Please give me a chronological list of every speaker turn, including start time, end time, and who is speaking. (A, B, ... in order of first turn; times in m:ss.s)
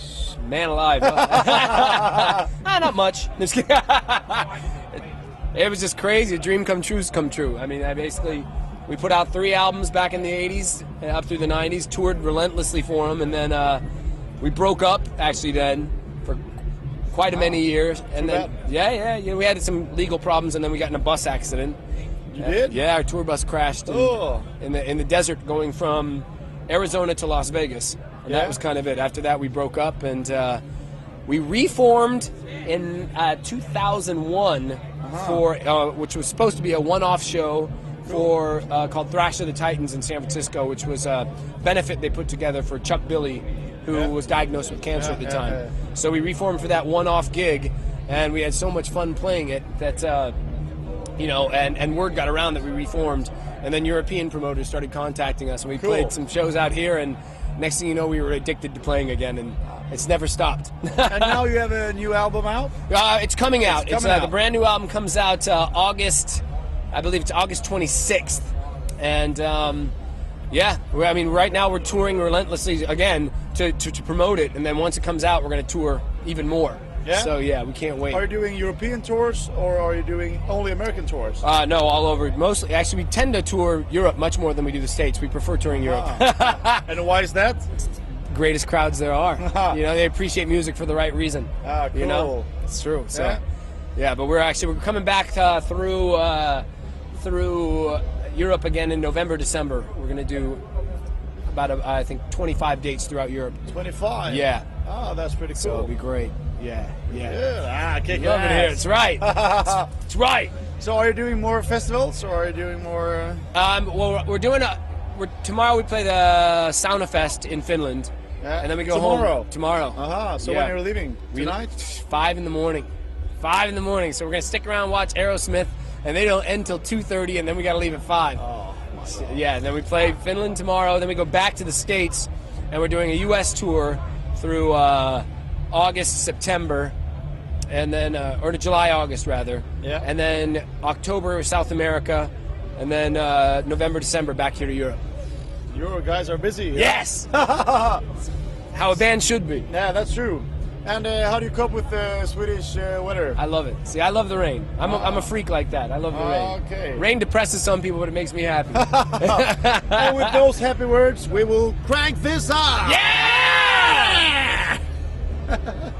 0:00.3-0:04.5 A
0:01.1-0:02.4 B
0:05.5-0:13.8 A
0:14.4-0:16.4 A
0:17.1-0:21.8 A
0:18.2-0:18.5 B
0:22.3-0:22.8 B
0:22.4-0:30.6 A
0:23.8-0:24.5 B
0:28.3-0:28.6 B
0:31.2-0:50.4 A
0:35.0-0:35.4 B
0:45.0-0:45.7 B
0:51.2-1:01.4 A
0:55.8-0:56.1 B
1:01.0-1:02.7 B
1:02.9-1:09.9 A
1:03.6-1:04.3 B
1:10.5-1:18.2 A
1:17.0-1:17.3 B
1:18.1-1:21.4 B
1:21.4-1:26.9 A
1:25.7-1:27.6 B
1:28.3-1:33.4 A
1:29.4-1:29.8 B
1:31.6-1:32.5 B
1:33.1-1:33.4 B
1:34.0-1:40.6 A
1:41.5-1:43.6 A
1:43.7-1:45.9 B
1:44.2-1:44.7 A
1:45.6-1:47.4 A
1:47.1-1:49.9 B
1:48.1-1:50.5 A
1:50.8-1:53.4 B
1:53.5-2:00.8 A
1:58.4-2:01.7 B
2:01.3-2:08.4 A
2:08.4-2:09.4 B
2:09.1-2:16.9 A
2:17.7-2:25.0 A
2:25.7-2:28.0 B
2:26.7-2:27.3 A
2:28.7-2:29.7 A
2:29.7-2:33.4 B
2:33.4-2:40.4 A
2:34.8-2:35.3 B
2:36.1-2:37.0 B
2:38.7-2:43.0 B
2:42.8-2:44.7 A
2:45.5-2:45.8 B